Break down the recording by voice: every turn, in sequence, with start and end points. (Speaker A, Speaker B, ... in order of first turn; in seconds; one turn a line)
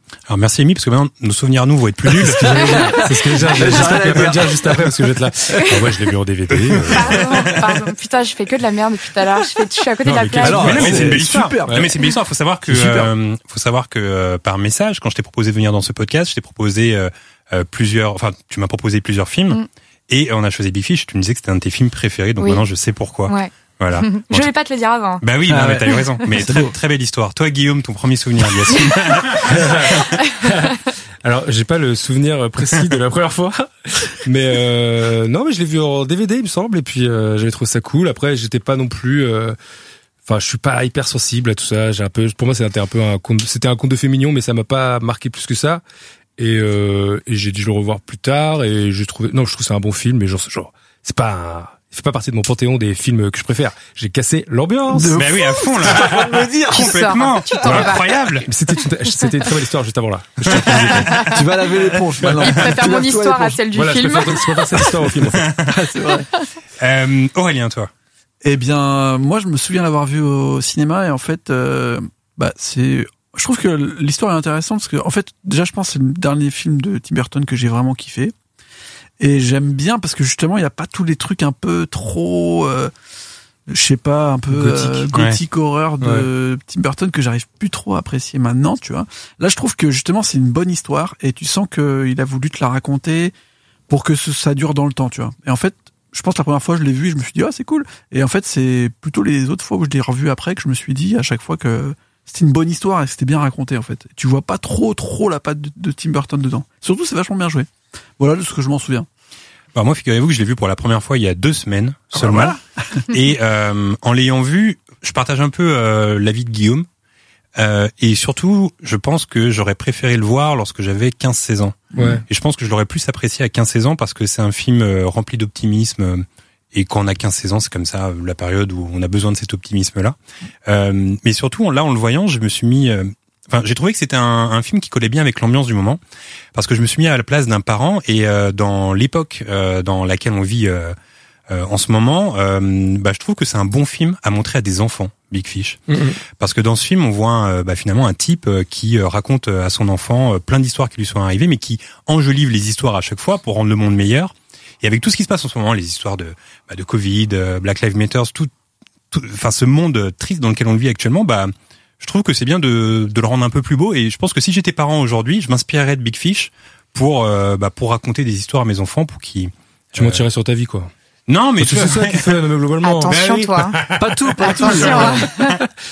Speaker A: 0.3-2.9
Speaker B: 2.2-5.6
Speaker C: 2.2-7.3
Speaker A: 6.7-7.3
Speaker D: 6.9-11.0
Speaker C: 10.1-11.9
Speaker B: 10.3-11.9
Speaker A: 10.4-24.5
Speaker B: 12.7-13.1
Speaker D: 23.3-25.2
Speaker A: 25.2-30.0
Speaker B: 25.5-26.8
Speaker C: 29.4-39.6
Speaker C: 40.3-45.8
Speaker C: 46.4-55.2
Speaker B: 54.9-57.1
Speaker A: 55.1-58.5
Speaker D: 56.7-58.1
Speaker C: 58.5-61.3
Speaker A: 60.5-61.3
Speaker D: 61.0-61.4
Speaker B: 61.2-63.6
Speaker D: 62.4-64.8
Speaker C: 63.7-65.5
Speaker B: 65.6-66.3
Speaker A: 66.8-67.9
Speaker B: 68.4-78.3
Speaker B: 79.2-82.9
Speaker B: 83.7-93.3
Speaker C: 84.5-85.1
Speaker B: 93.9-109.1
Speaker A: 109.7-112.6
Speaker B: 112.2-112.6
Speaker A: 113.1-116.9
Speaker A: 117.6-136.0
Speaker C: 122.0-122.2
Speaker A: 136.5-140.9
Speaker A: 141.5-145.8
Speaker C: 145.9-146.2
Speaker A: 146.4-158.5
Speaker A: 159.1-170.2
Speaker C: 170.0-170.9
Speaker A: 171.3-172.4
Speaker C: 171.6-173.5
Speaker D: 172.8-173.8
Speaker A: 173.1-174.0
Speaker B: 174.0-175.4
Speaker D: 174.4-175.6
Speaker A: 174.6-175.3